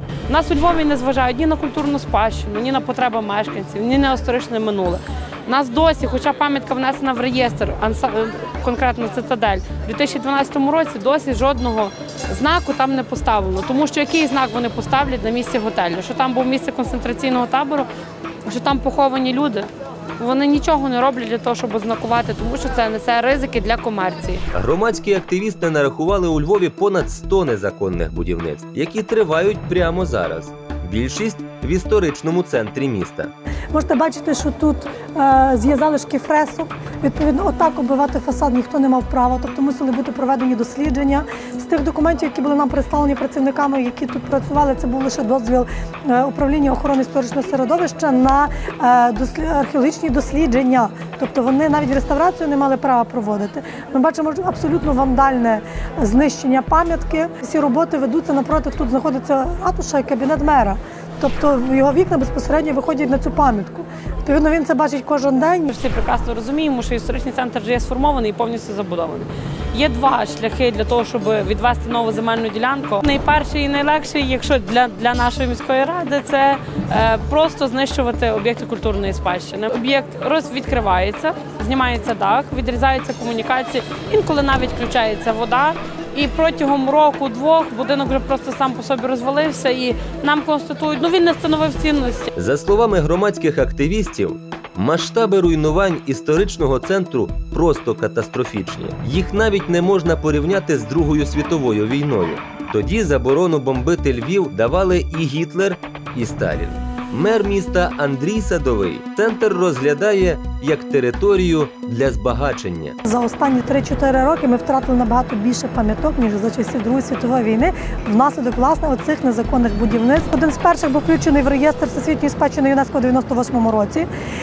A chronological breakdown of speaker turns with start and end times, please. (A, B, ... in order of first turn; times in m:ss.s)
0:00.3-0:17.9 A
0:18.5-0:24.4 A
0:24.5-0:33.3 B
0:33.7-1:05.7 C
1:05.7-1:32.3 A
1:32.4-1:53.0 B
1:53.1-2:04.1 C